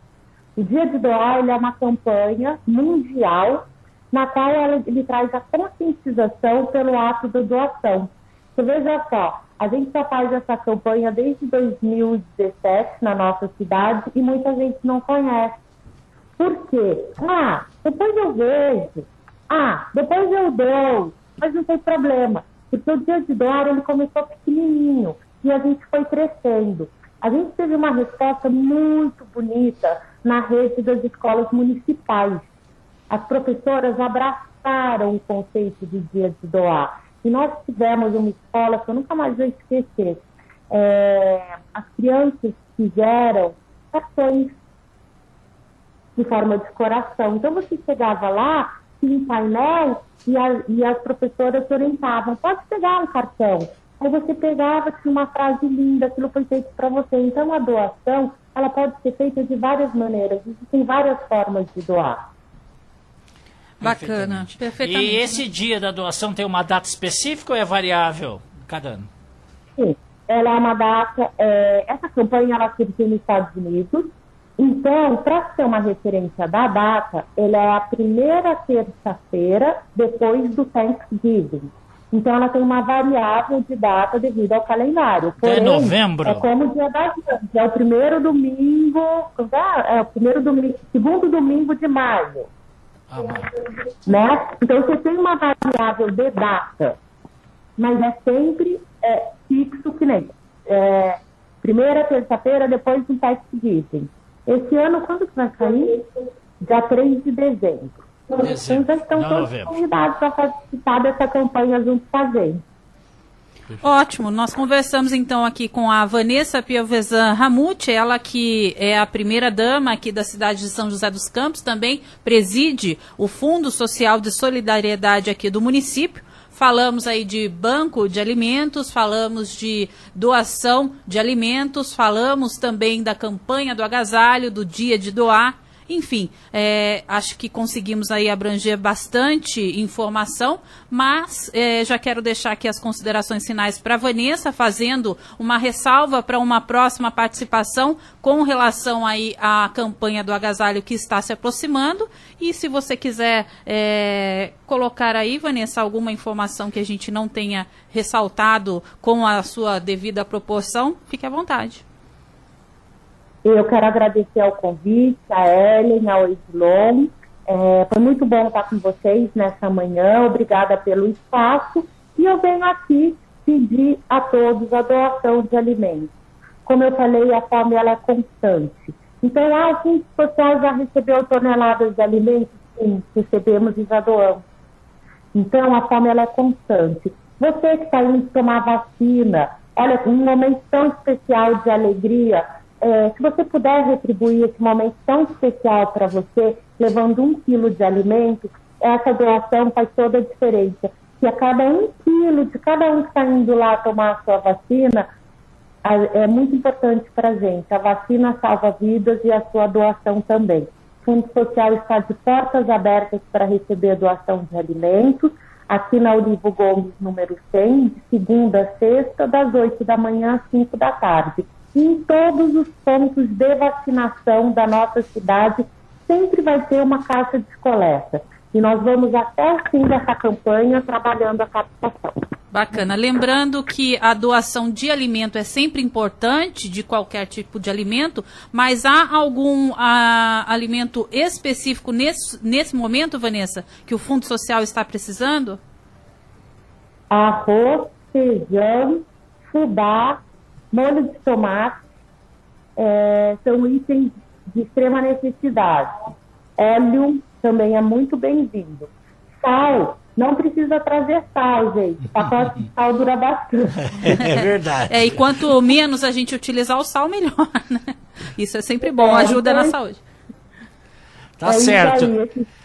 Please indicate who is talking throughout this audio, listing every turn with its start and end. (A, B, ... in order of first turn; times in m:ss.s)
0:00.6-0:15.6 A
0:16.4-0:32.5 A
0:33.1-0:44.6 A
0:46.2-1:02.2 A
1:03.8-1:05.4 B
1:03.8-1:09.1 C
1:09.8-1:32.5 A
1:25.4-1:26.5 C
1:33.1-1:33.5 C
1:34.0-1:37.0 A
1:37.8-1:46.0 A
1:46.6-1:52.6 A
1:48.4-1:49.7 C
1:53.8-2:41.8 B
2:43.4-2:56.1 A
2:56.6-3:04.4 A
3:05.3-3:25.1 A
3:25.8-3:52.2 A
3:52.5-4:05.6 B
4:07.1-4:10.2 A
4:10.7-4:11.8 A
4:12.8-4:15.9 A
4:16.6-4:24.2 A
4:24.0-4:25.0 C
4:24.9-4:30.0 B
4:29.0-4:29.8 A
4:31.4-4:32.1 C
4:31.5-4:32.5 A